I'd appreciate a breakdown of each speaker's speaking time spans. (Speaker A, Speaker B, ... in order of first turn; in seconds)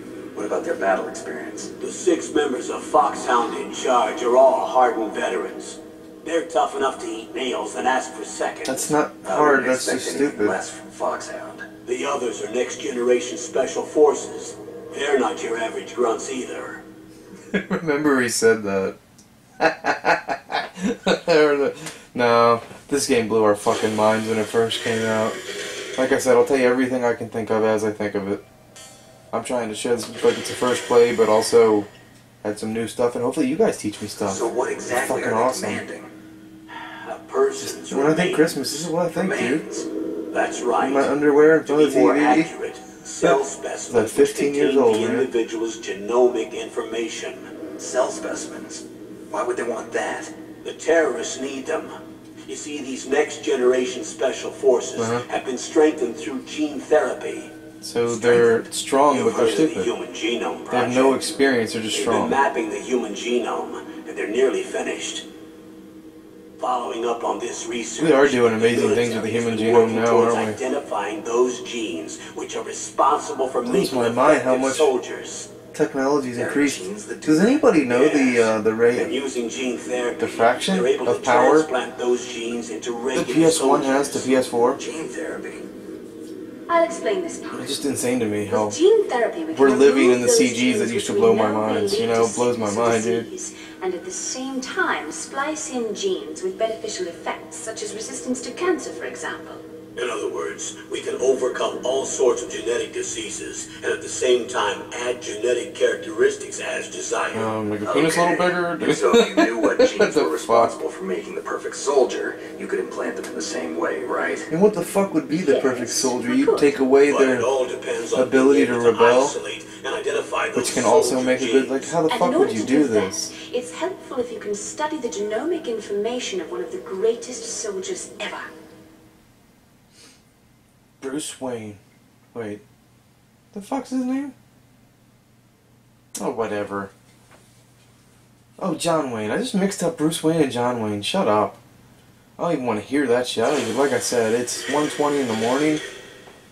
Speaker A: 0.3-1.7, 9.2-11.7, 34.2-36.1, 39.1-39.9, 47.8-50.3, 76.3-77.7, 84.7-85.7, 107.8-114.5
Speaker B: 1.8-8.9, 11.8-16.8, 36.9-38.9, 40.3-47.5, 50.6-57.5, 58.1-61.2, 61.9-65.2, 66.6-75.5, 77.9-84.2, 100.0-107.5, 117.0-121.9
Speaker C: 8.7-10.6, 17.5-18.9, 19.6-25.4, 25.9-28.4, 29.3-31.9, 32.4-35.8, 37.6-39.6, 40.8-42.5, 43.9-45.3, 55.0-55.2, 57.8-59.9, 60.7-62.4, 68.0-70.6, 73.6-74.9, 75.7-79.1, 80.2-81.7, 83.1-84.8, 87.5-88.8, 89.5-93.2, 107.3-110.7, 114.5-117.5, 118.1-119.3, 120.5-123.3, 131.0-131.8, 132.3-132.6, 133.5-134.3, 136.1-136.9, 138.6-141.6, 142.4-145.8
Speaker D: 86.7-87.7, 88.5-99.6, 115.3-116.7, 122.1-128.5